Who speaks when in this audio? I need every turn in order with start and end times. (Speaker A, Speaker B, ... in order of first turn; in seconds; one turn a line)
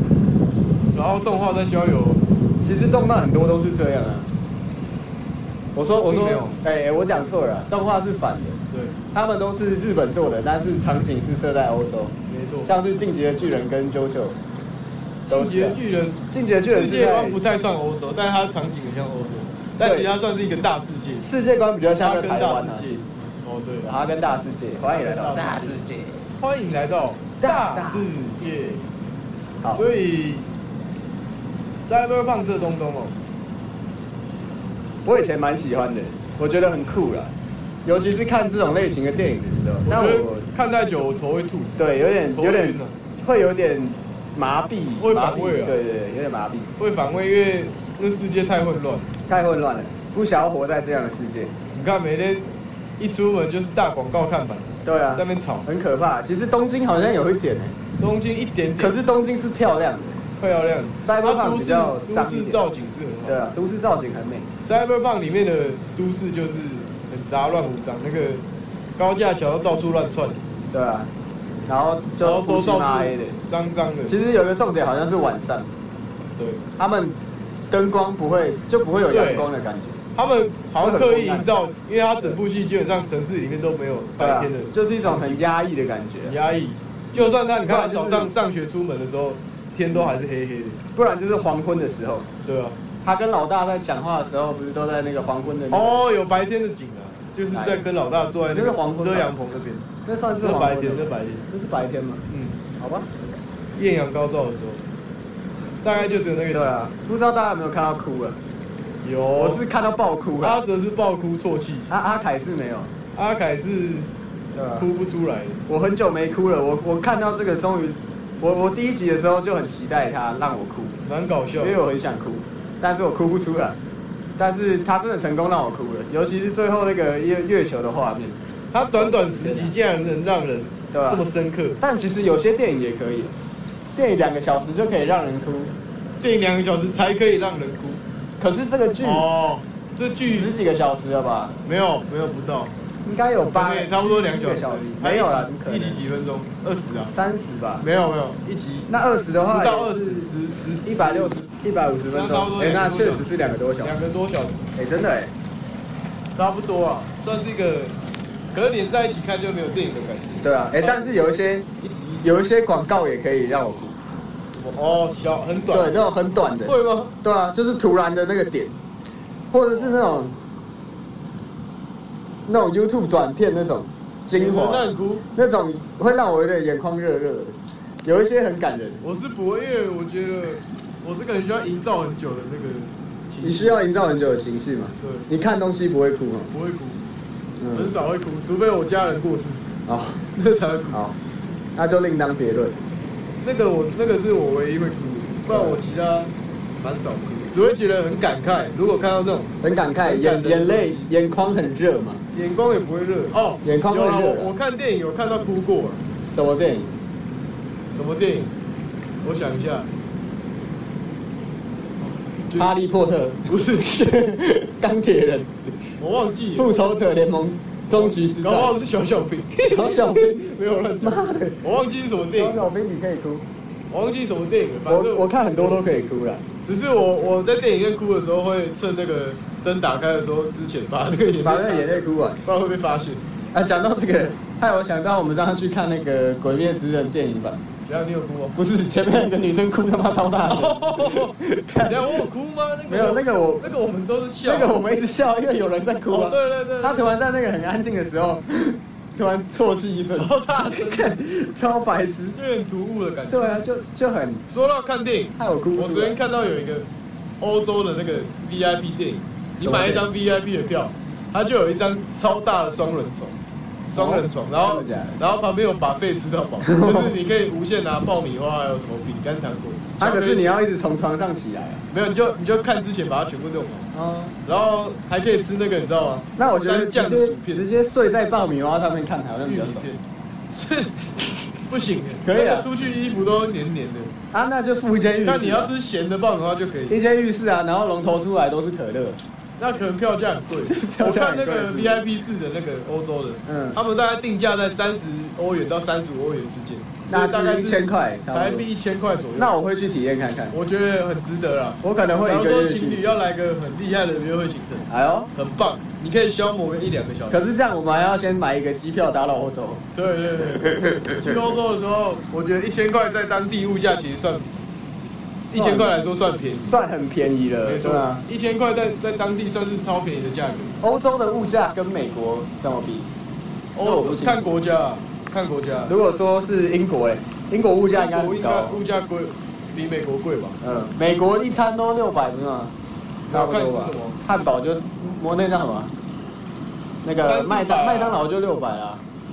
Speaker A: 0.9-2.2
Speaker B: 2.6-4.3
Speaker B: 5.8-8.6
Speaker A: 6.0-6.6
Speaker B: 9.1-14.4
Speaker A: 12.3-12.7
Speaker A: 15.3-21.3
Speaker B: 15.3-15.8
Speaker B: 16.3-17.4
Speaker B: 19.8-20.1
Speaker B: 21.2-23.1
Speaker A: 22.0-23.9
Speaker B: 23.8-26.2
Speaker A: 24.9-25.8
Speaker A: 26.4-28.9
Speaker B: 27.4-28.1
Speaker A: 29.7-30.5
Speaker A: 31.8-33.2
Speaker B: 35.0-37.3
Speaker B: 37.9-40.5
Speaker A: 39.9-41.8
Speaker B: 41.8-46.7
Speaker A: 42.4-43.0
Speaker A: 45.0-45.8
Speaker A: 46.8-49.1
Speaker B: 49.3-51.5
Speaker A: 51.7-55.7
Speaker B: 54.9-57.8
Speaker A: 58.0-59.0
Speaker B: 58.8-60.2
Speaker A: 60.4-63.4
Speaker B: 61.0-62.6
Speaker B: 63.3-64.5
Speaker A: 64.6-68.4
Speaker A: 69.0-70.4
Speaker B: 70.7-71.1
Speaker B: 71.7-73.4
Speaker A: 72.2-74.2
Speaker B: 74.1-75.7
Speaker A: 76.4-76.6
Speaker B: 76.8-77.2
Speaker B: 77.7-80.0
Speaker A: 79.1-79.5
Speaker A: 80.2-85.4
Speaker B: 80.8-81.5
Speaker B: 84.2-86.3
Speaker A: 86.2-90.8
Speaker B: 87.1-88.3
Speaker B: 91.0-92.3
Speaker A: 92.4-92.8
Speaker B: 93.0-96.0
Speaker A: 95.7-99.8
Speaker B: 97.5-97.8
Speaker B: 98.5-99.3
Speaker B: 100.1-102.2
Speaker A: 100.4-101.5
Speaker A: 102.3-102.6
Speaker B: 102.8-103.4
Speaker A: 103.8-104.8
Speaker A: 105.8-106.7
Speaker B: 106.5-108.4
Speaker A: 109.0-109.6
Speaker B: 109.4-110.6
Speaker A: 110.4-111.9
Speaker B: 111.9-112.9
Speaker A: 113.2-114.1
Speaker B: 114.5-114.9
Speaker A: 114.8-115.6
Speaker B: 115.7-121.0
Speaker A: 121.0-121.8
Speaker B: 121.6-123.8
Speaker B: 124.4-128.4
Speaker A: 128.7-131.8
Speaker B: 128.9-129.7
Speaker B: 130.9-131.2
Speaker B: 131.8-133.3
Speaker B: 133.9-135.8
Speaker A: 136.2-138.0
Speaker B: 138.4-139.3
Speaker A: 139.0-140.5
Speaker B: 140.2-141.6
Speaker A: 141.6-142.7
Speaker B: 143.0-146.0
Speaker A: 143.5-147.1
Speaker B: 147.1-147.9
Speaker A: 147.8-148.9
Speaker B: 148.9-150.3
Speaker A: 149.5-151.5
Speaker B: 150.8-154.0
Speaker A: 152.1-153.3
Speaker A: 153.8-154.7
Speaker B: 154.8-155.3
Speaker A: 156.4-157.9
Speaker A: 158.5-161.2
Speaker B: 160.4-161.7
Speaker A: 161.8-162.3
Speaker B: 162.2-164.0
Speaker A: 164.5-166.0
Speaker B: 165.7-168.8
Speaker A: 166.6-167.1
Speaker B: 169.5-170.3
Speaker A: 169.7-170.0
Speaker B: 172.5-179.0
Speaker A: 174.3-175.2
Speaker A: 179.0-183.8
Speaker B: 183.4-186.5
Speaker A: 185.0-185.3
Speaker A: 186.5-187.0
Speaker B: 187.6-187.9
Speaker A: 187.7-189.7
Speaker B: 189.9-190.2
Speaker A: 190.3-191.0
Speaker B: 191.8-192.8
Speaker A: 193.4-201.1
Speaker B: 195.5-195.8
Speaker B: 199.6-202.2
Speaker A: 202.3-206.0
Speaker B: 203.6-204.5
Speaker B: 206.2-206.9
Speaker A: 207.9-208.5
Speaker A: 209.2-209.9
Speaker A: 212.0-212.7
Speaker B: 212.6-215.7
Speaker A: 213.5-213.8
Speaker A: 216.0-216.8
Speaker B: 216.6-218.8
Speaker A: 217.9-222.6
Speaker B: 219.6-221.6
Speaker B: 222.4-223.5
Speaker A: 223.9-225.8
Speaker B: 224.9-226.4
Speaker A: 226.6-233.2
Speaker B: 231.4-232.4
Speaker B: 233.5-237.6
Speaker A: 237.9-238.6
Speaker B: 238.6-242.3
Speaker A: 240.5-244.8
Speaker B: 242.9-243.7
Speaker B: 244.4-252.4
Speaker A: 246.1-247.1
Speaker A: 250.2-251.2
Speaker A: 252.3-253.6
Speaker B: 253.3-254.4
Speaker A: 254.5-256.9
Speaker B: 255.4-256.2
Speaker A: 257.4-263.4
Speaker B: 259.6-260.1
Speaker A: 263.9-270.6
Speaker B: 263.9-265.2
Speaker B: 266.6-267.1
Speaker B: 270.0-271.8
Speaker A: 271.9-273.9
Speaker B: 273.9-274.4
Speaker A: 274.4-277.6
Speaker B: 276.4-279.9
Speaker A: 279.4-284.1
Speaker B: 282.2-282.7
Speaker B: 284.3-285.7
Speaker A: 285.2-287.0
Speaker B: 286.9-289.2
Speaker A: 289.6-299.5
Speaker B: 290.7-292.0
Speaker B: 293.5-293.8
Speaker B: 297.1-298.7
Speaker B: 299.4-300.6
Speaker A: 300.5-307.4
Speaker B: 301.8-303.2
Speaker B: 304.9-305.3
Speaker B: 307.3-309.9
Speaker A: 309.9-314.5
Speaker B: 310.4-311.6
Speaker A: 315.4-316.8
Speaker B: 315.5-315.9
Speaker B: 316.7-318.2
Speaker A: 317.6-320.8
Speaker B: 320.8-323.1
Speaker A: 323.8-325.9
Speaker B: 323.8-324.6
Speaker B: 325.9-328.8
Speaker A: 327.9-330.6
Speaker B: 330.6-332.7
Speaker A: 333.3-334.2
Speaker B: 333.3-335.9
Speaker B: 337.0-339.0
Speaker A: 337.2-338.2